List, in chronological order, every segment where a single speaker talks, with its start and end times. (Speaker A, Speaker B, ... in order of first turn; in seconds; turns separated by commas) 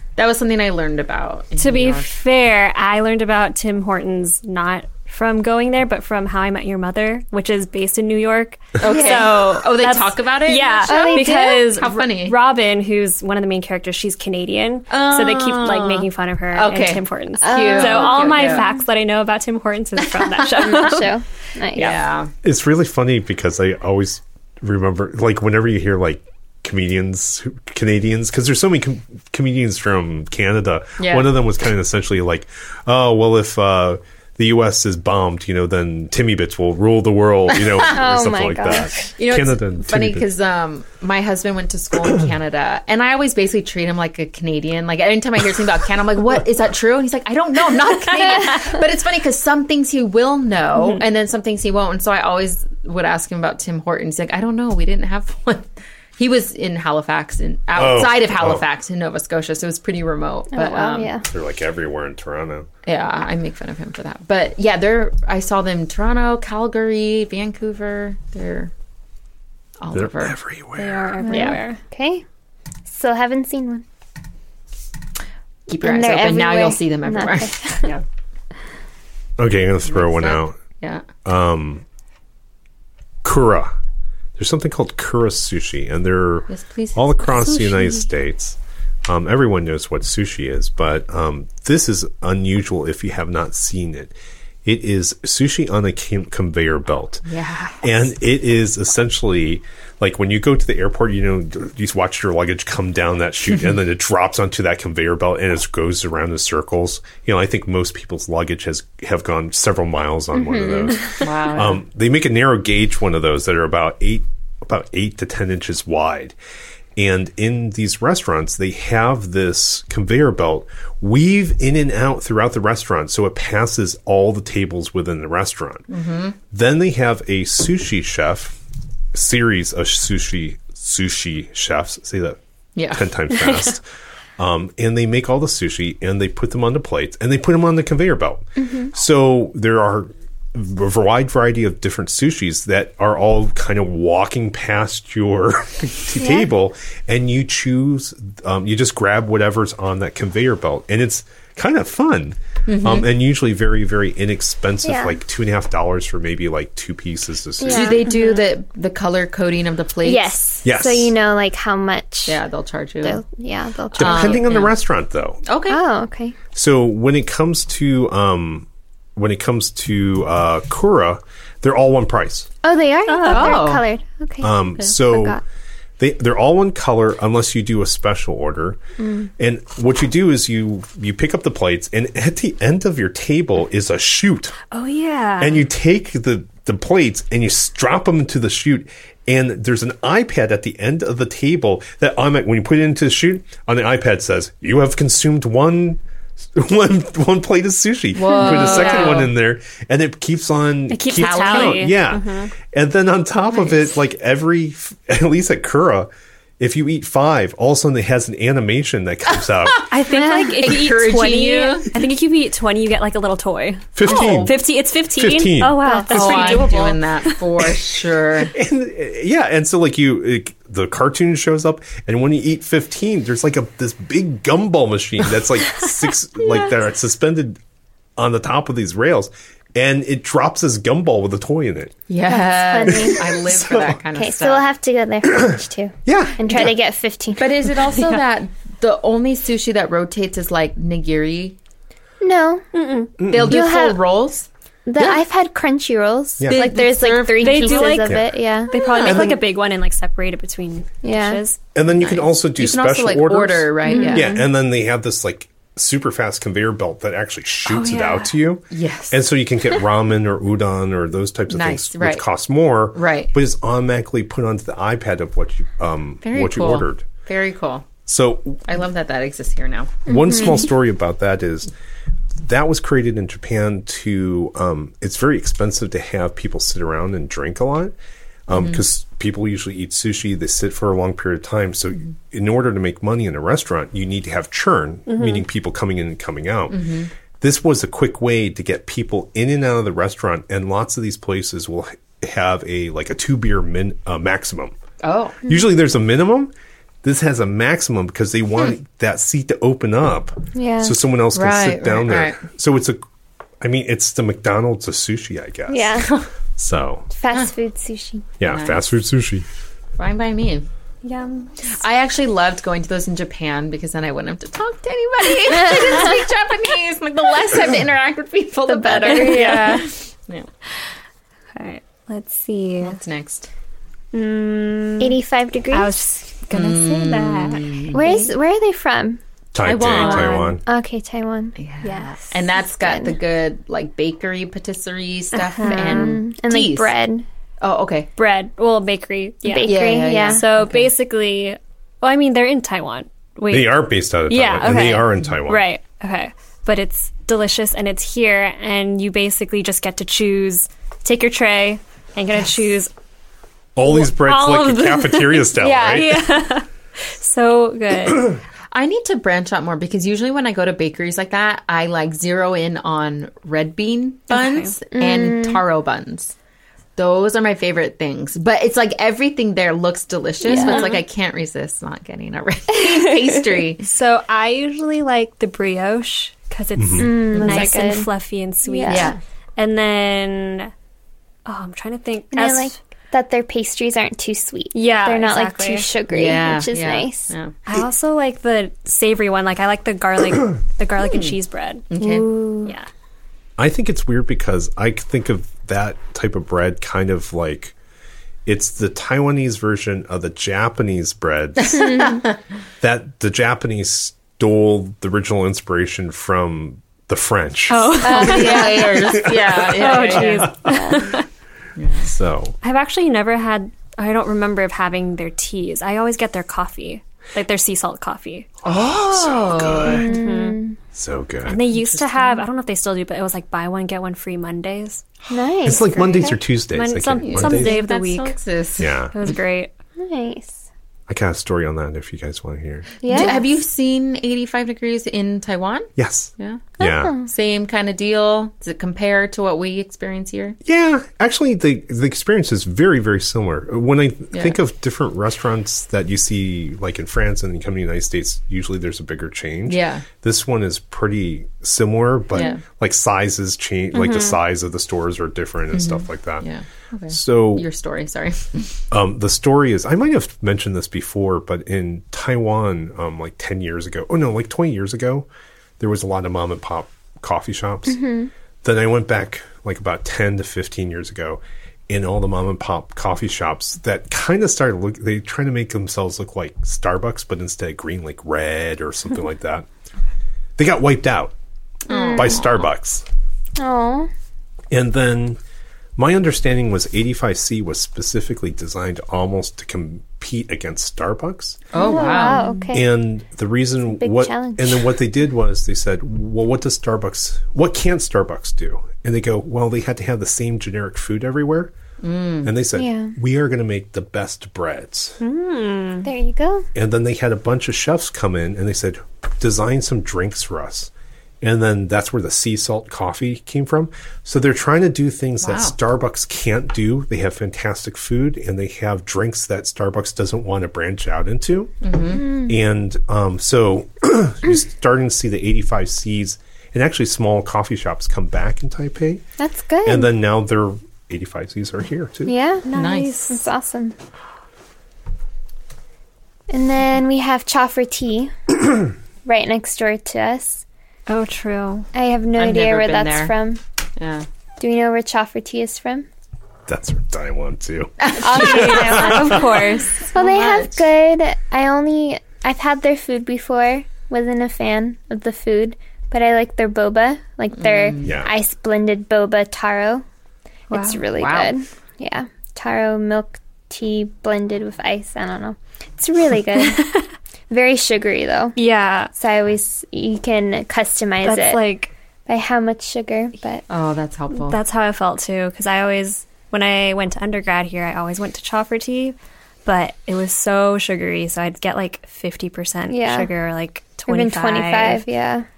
Speaker A: 0.1-2.1, Speaker B: 1.6-21.1, Speaker A: 8.8-12.3, Speaker C: 8.8-9.2, Speaker C: 10.8-11.6, Speaker A: 14.9-18.6, Speaker C: 17.4-18.8, Speaker C: 20.6-22.0, Speaker A: 21.7-22.3, Speaker D: 22.4-40.2, Speaker A: 31.0-31.3, Speaker A: 37.5-38.0, Speaker C: 37.9-39.1, Speaker A: 39.1-61.2, Speaker D: 57.7-58.6, Speaker C: 60.5-61.2, Speaker D: 61.2-62.7, Speaker A: 62.8-68.7, Speaker A: 69.8-70.3, Speaker D: 69.9-71.1, Speaker B: 70.8-71.8, Speaker C: 71.2-72.2, Speaker A: 71.3-71.6, Speaker C: 72.8-73.8, Speaker A: 75.7-78.0, Speaker C: 75.7-77.9, Speaker D: 79.4-80.6, Speaker A: 79.9-81.1, Speaker D: 81.2-81.8, Speaker D: 83.2-83.7, Speaker D: 84.4-97.2, Speaker A: 86.5-87.5, Speaker A: 97.2-97.8, Speaker D: 97.8-116.3, Speaker C: 110.3-111.0, Speaker A: 111.2-111.8, Speaker D: 117.0-125.8, Speaker A: 125.9-126.4, Speaker D: 126.5-128.6, Speaker D: 129.1-132.4, Speaker A: 132.8-133.1, Speaker D: 132.9-133.8, Speaker D: 134.4-158.1, Speaker C: 138.6-138.9, Speaker C: 146.2-146.5, Speaker A: 152.7-153.1, Speaker C: 154.8-155.2, Speaker C: 157.6-158.0, Speaker A: 157.7-160.4, Speaker B: 158.1-158.4, Speaker C: 160.0-162.4, Speaker D: 160.6-161.1, Speaker A: 162.3-163.2, Speaker C: 163.0-164.4, Speaker D: 164.0-165.4, Speaker A: 164.0-164.7, Speaker A: 165.4-165.8, Speaker C: 165.7-166.3, Speaker D: 166.5-172.5, Speaker C: 172.6-175.4, Speaker B: 173.1-173.7, Speaker A: 173.2-173.8, Speaker D: 174.4-175.4, Speaker D: 176.0-178.8, Speaker C: 179.0-179.3, Speaker D: 179.4-184.6, Speaker B: 184.7-185.6, Speaker D: 185.4-196.0, Speaker D: 196.5-209.9, Speaker A: 198.1-199.3, Speaker C: 198.4-198.6, Speaker B: 198.6-199.1, Speaker B: 200.9-202.5, Speaker A: 201.2-201.9, Speaker A: 209.8-211.9, Speaker B: 209.9-217.4, Speaker C: 210.1-210.6, Speaker D: 213.9-214.6, Speaker A: 214.0-214.5, Speaker D: 215.1-216.4, Speaker C: 215.8-216.7, Speaker A: 216.1-218.5, Speaker D: 218.5-227.6, Speaker D: 228.2-232.1, Speaker A: 232.1-234.6, Speaker C: 232.3-233.2, Speaker D: 232.8-233.9, Speaker C: 234.1-237.7, Speaker D: 235.2-236.7, Speaker A: 237.4-241.6, Speaker C: 242.2-242.6, Speaker B: 242.7-243.1, Speaker D: 243.2-243.6, Speaker A: 243.2-244.5, Speaker C: 243.3-244.0, Speaker C: 244.8-249.2, Speaker D: 246.4-246.7, Speaker A: 246.5-248.1, Speaker B: 247.4-251.6, Speaker D: 248.1-248.3, Speaker D: 249.0-249.4, Speaker A: 249.0-249.3, Speaker C: 251.0-251.4, Speaker D: 251.7-267.1, Speaker A: 252.0-254.4, Speaker C: 253.8-254.4, Speaker B: 253.9-254.2, Speaker B: 257.6-258.3, Speaker A: 258.7-259.2, Speaker A: 261.5-262.2, Speaker A: 262.9-263.3, Speaker A: 266.2-267.9, Speaker D: 268.0-268.6, Speaker A: 268.7-270.1, Speaker D: 270.0-271.7, Speaker D: 272.4-277.9, Speaker D: 278.5-286.8, Speaker A: 278.5-278.8, Speaker B: 285.1-285.4, Speaker A: 286.7-287.1, Speaker D: 287.4-294.7, Speaker A: 295.0-295.4, Speaker D: 295.4-296.5, Speaker D: 297.0-303.0, Speaker C: 300.5-300.9, Speaker A: 301.3-302.4, Speaker D: 303.6-306.0, Speaker C: 305.7-306.1, Speaker D: 306.6-307.1, Speaker C: 307.1-308.2, Speaker D: 308.4-309.4, Speaker A: 308.4-308.8, Speaker A: 310.0-310.7, Speaker B: 311.0-311.7, Speaker A: 311.7-320.5, Speaker C: 318.7-319.9, Speaker B: 319.0-319.9, Speaker B: 321.5-323.0, Speaker A: 322.8-323.5, Speaker B: 324.1-325.2, Speaker C: 325.0-325.9, Speaker B: 325.7-328.3, Speaker A: 326.5-328.3, Speaker C: 327.9-329.2, Speaker D: 329.5-330.6, Speaker A: 329.6-330.6, Speaker C: 330.0-331.6, Speaker B: 330.0-330.2, Speaker A: 331.6-336.9, Speaker B: 331.8-332.3, Speaker C: 332.6-333.1, Speaker B: 335.3-336.2, Speaker C: 335.6-337.2, Speaker A: 337.6-338.1, Speaker B: 338.2-352.9, Speaker C: 339.4-340.4, Speaker A: 339.6-340.9, Speaker D: 343.5-345.6, Speaker D: 353.8-356.3, Speaker B: 353.9-358.4, Speaker A: 358.7-366.3, Speaker B: 364.3-364.7, Speaker C: 364.9-365.6, Speaker A: 367.0-373.8, Speaker C: 370.4-371.0, Speaker B: 370.5-371.0, Speaker B: 373.8-380.7, Speaker D: 376.8-377.1, Speaker C: 377.0-378.1, Speaker A: 377.3-377.7, Speaker C: 378.6-379.1, Speaker A: 378.9-379.2, Speaker B: 381.4-382.7, Speaker C: 382.3-387.3, Speaker B: 384.7-385.9, Speaker A: 386.1-387.5, Speaker B: 387.7-391.9, Speaker A: 391.9-392.2, Speaker C: 391.9-392.7, Speaker D: 393.6-397.7, Speaker D: 398.4-402.0, Speaker A: 401.7-402.4, Speaker C: 401.8-402.2, Speaker D: 402.8-410.9, Speaker B: 407.7-411.2, Speaker A: 408.0-410.5, Speaker C: 410.7-411.0, Speaker A: 411.8-412.1, Speaker D: 412.0-412.5, Speaker B: 412.6-418.5, Speaker D: 418.6-420.1, Speaker A: 418.6-420.1, Speaker C: 419.9-420.8, Speaker B: 420.1-420.6, Speaker D: 420.9-421.7, Speaker B: 421.4-425.0, Speaker A: 421.8-422.2, Speaker C: 425.3-426.4, Speaker D: 425.6-427.8, Speaker B: 425.9-428.4, Speaker A: 427.2-429.3, Speaker D: 428.8-429.1, Speaker B: 429.1-429.7, Speaker C: 430.0-430.6, Speaker D: 431.1-432.9, Speaker C: 433.0-433.4, Speaker A: 433.0-440.6, Speaker D: 435.9-437.2, Speaker C: 436.8-437.3, Speaker D: 440.6-456.4, Speaker A: 449.7-450.1, Speaker A: 452.3-452.6, Speaker B: 453.9-454.4, Speaker A: 455.7-458.8, Speaker D: 457.1-457.7, Speaker D: 458.9-465.3, Speaker D: 465.8-468.1, Speaker C: 467.9-468.3, Speaker D: 468.6-479.7, Speaker D: 480.6-481.3, Speaker C: 481.9-482.4, Speaker A: 481.9-482.5, Speaker D: 482.1-483.0, Speaker C: 483.6-484.1, Speaker D: 484.7-485.4, Speaker D: 486.0-491.7, Speaker A: 491.7-492.7, Speaker C: 491.8-492.9, Speaker D: 492.7-501.7, Speaker C: 494.0-494.9, Speaker A: 502.0-502.5, Speaker D: 502.4-505.2, Speaker C: 502.7-503.1, Speaker B: 505.2-506.1, Speaker C: 506.0-506.7, Speaker D: 506.7-521.7, Speaker A: 515.4-515.7, Speaker A: 521.8-522.2, Speaker C: 522.1-522.5, Speaker D: 522.4-529.2, Speaker C: 529.4-530.1, Speaker D: 529.8-532.3, Speaker C: 532.2-532.7, Speaker B: 532.6-533.4, Speaker A: 532.7-533.1, Speaker C: 533.3-534.0, Speaker C: 536.5-538.5, Speaker C: 539.2-540.6, Speaker B: 541.1-541.9, Speaker C: 541.9-543.6, Speaker A: 542.4-543.3, Speaker A: 544.0-544.2, Speaker C: 544.6-546.1, Speaker D: 546.7-549.6, Speaker A: 548.0-548.8, Speaker C: 548.2-549.5, Speaker B: 548.3-550.1, Speaker A: 550.1-550.8, Speaker C: 550.1-560.0, Speaker A: 557.6-558.1, Speaker D: 558.0-558.3, Speaker B: 560.7-561.0, Speaker C: 560.7-566.9, Speaker A: 561.1-561.5, Speaker C: 567.5-568.6, Speaker B: 568.5-569.1, Speaker C: 569.1-571.6, Speaker B: 571.2-571.9, Speaker C: 572.3-573.6, Speaker A: 573.7-574.6, Speaker B: 574.3-585.0, Speaker C: 582.9-583.3, Speaker C: 584.1-585.5